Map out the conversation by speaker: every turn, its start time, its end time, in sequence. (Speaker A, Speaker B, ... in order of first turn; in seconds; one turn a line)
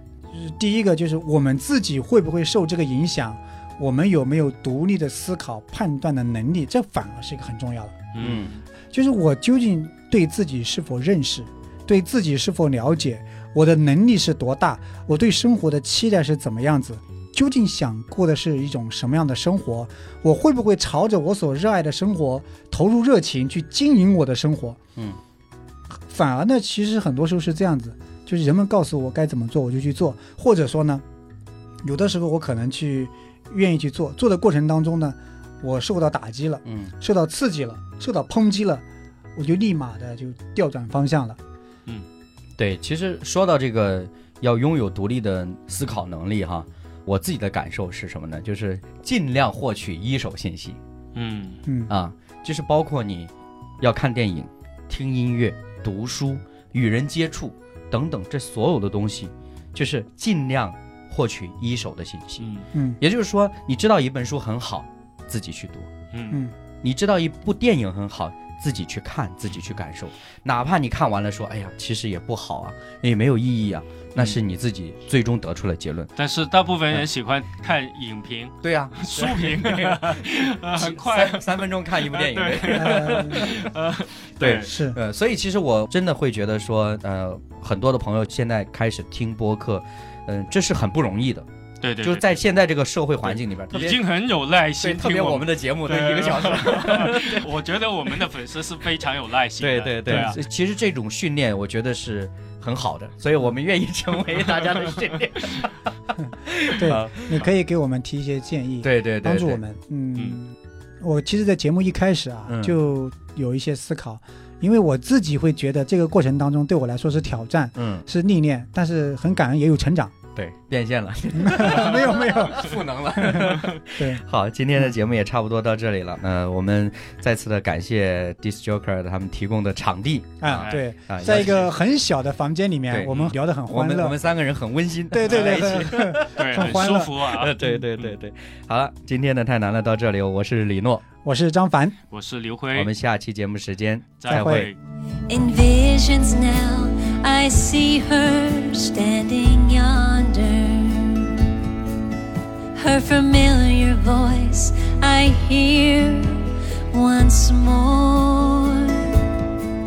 Speaker A: 0.3-8.1
Speaker B: 8.1-8.6
Speaker C: 8.2-8.6
Speaker A: 8.9-24.8
Speaker A: 25.9-31.0
Speaker A: 31.8-38.8
Speaker C: 36.6-36.9
Speaker A: 39.4-41.4
Speaker C: 42.6-50.8
Speaker B: 51.1-51.6
Speaker C: 51.9-62.4
Speaker B: 62.4-62.7
Speaker A: 62.7-63.0
Speaker C: 63.0-65.9
Speaker B: 66.1-66.4
Speaker C: 66.8-76.1
Speaker B: 76.2-84.7
Speaker C: 78.6-83.7
Speaker A: 82.7-83.5
Speaker C: 84.4-91.5
Speaker A: 84.6-85.0
Speaker B: 91.8-92.4
Speaker C: 92.0-94.0
Speaker B: 93.3-100.4
Speaker C: 94.8-97.5
Speaker C: 99.6-105.7
Speaker A: 100.1-100.3
Speaker C: 106.4-107.4
Speaker A: 106.8-120.1
Speaker C: 108.8-109.6
Speaker C: 112.5-112.8
Speaker C: 117.8-118.0
Speaker C: 120.3-131.7
Speaker A: 121.3-124.2
Speaker A: 130.4-134.2
Speaker B: 130.6-131.7
Speaker C: 132.9-141.0
Speaker B: 133.1-133.3
Speaker A: 135.1-137.2
Speaker B: 135.3-138.1
Speaker A: 141.2-142.0
Speaker B: 142.1-142.9
Speaker C: 142.7-144.7
Speaker B: 144.2-144.8
Speaker A: 144.3-144.7
Speaker D: 145.3-151.5
Speaker D: 152.7-159.3